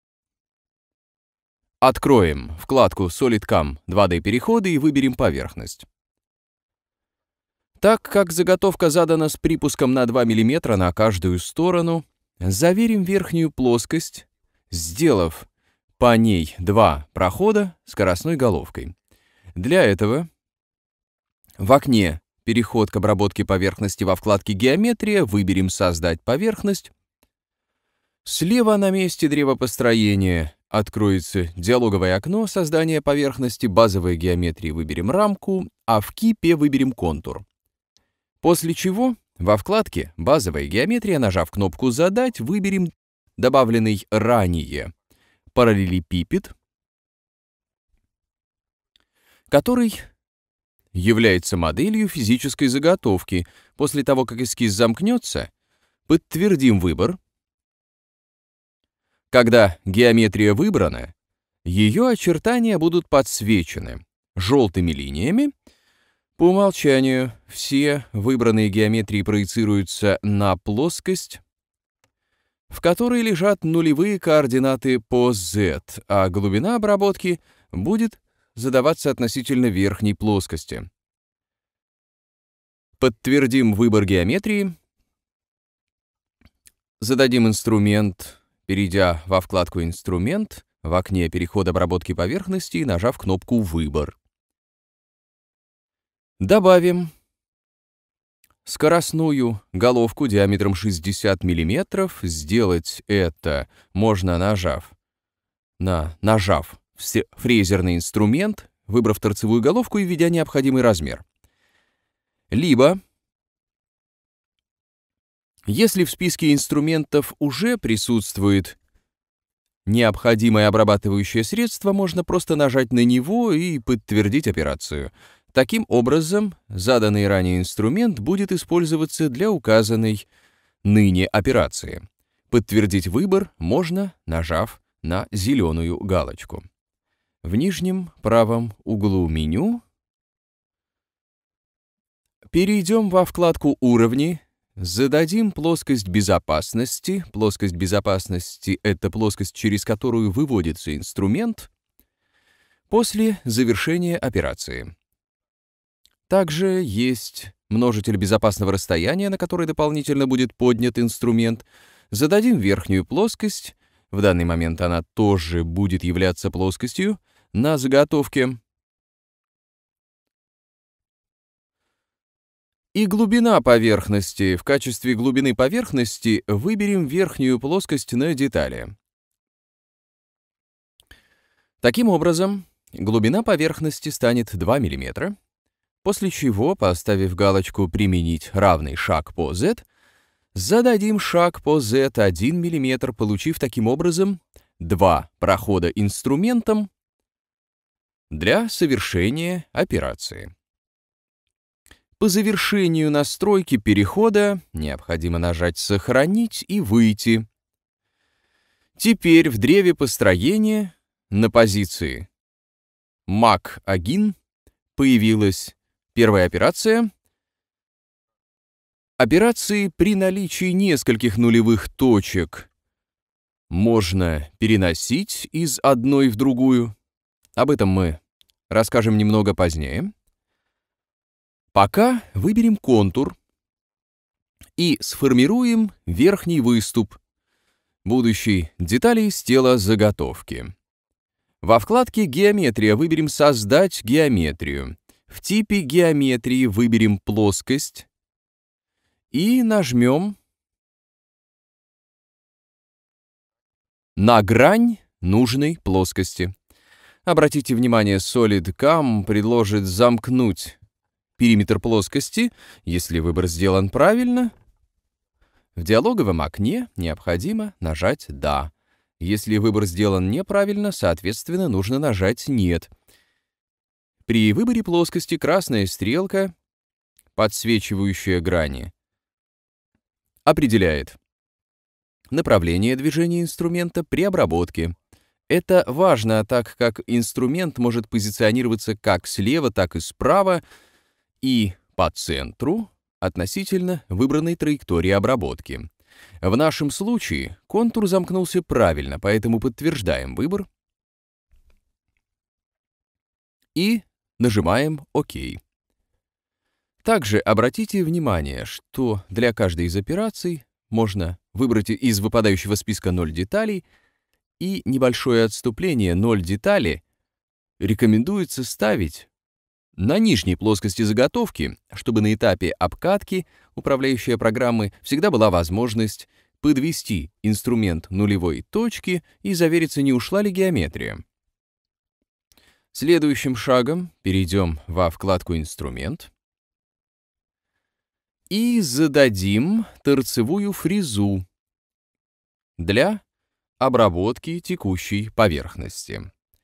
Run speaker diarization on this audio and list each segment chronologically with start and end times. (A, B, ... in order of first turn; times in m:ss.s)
0:01.8-0:05.9 A
0:07.8-0:15.5 A
0:16.0-0:18.9 A
0:19.6-0:20.3 A
0:21.6-0:26.9 A
0:28.2-0:37.4 A
0:38.4-0:44.9 A
0:45.5-0:46.5 A
0:49.5-0:50.0 A
0:50.9-0:55.5 A
0:56.1-0:57.2 A
0:59.3-1:01.1 A
1:01.6-1:05.5 A
1:06.4-1:11.4 A
1:12.7-1:20.9 A
1:23.0-1:24.8 A
1:27.0-1:34.2 A
1:36.4-1:37.1 A
1:38.6-1:44.9 A
1:45.8-1:51.2 A
1:52.5-1:53.0 A
1:55.7-1:58.8 A
1:59.9-2:10.3 A
2:10.8-2:16.6 A
2:17.4-2:19.8 A
2:22.5-2:31.7 A
2:32.9-2:34.9 A
2:36.3-2:48.6 A
2:52.9-2:58.9 A
3:01.8-3:05.4 A
3:06.0-3:09.9 A
3:10.5-3:16.9 A
3:18.3-3:20.5 A
3:22.2-3:27.5 A
3:29.0-3:32.3 A
3:33.3-3:34.4 A
3:35.0-3:37.1 A
3:39.2-3:42.7 A
3:43.7-3:46.9 A
3:47.6-3:48.2 A
3:48.7-3:50.1 A
3:51.7-3:53.4 A
3:54.8-3:57.2 A
3:58.0-4:00.7 A
4:01.6-4:08.1 A
4:09.3-4:10.4 A
4:14.2-4:16.5 A
4:17.2-4:20.8 A
4:21.4-4:24.5 A
4:25.8-4:32.9 A
4:34.3-4:36.5 A
4:37.4-4:38.9 A
4:40.5-4:41.2 A
4:42.3-4:45.0 A
4:45.5-4:50.6 A
4:51.4-4:55.9 A
4:56.4-5:00.7 A
5:03.8-5:05.6 A
5:07.0-5:13.8 A
5:14.6-5:17.0 A
5:17.8-5:19.3 A
5:20.0-5:31.2 A
5:32.9-5:36.3 A
5:38.5-5:41.4 A
5:42.8-5:43.2 A
5:43.8-5:46.3 A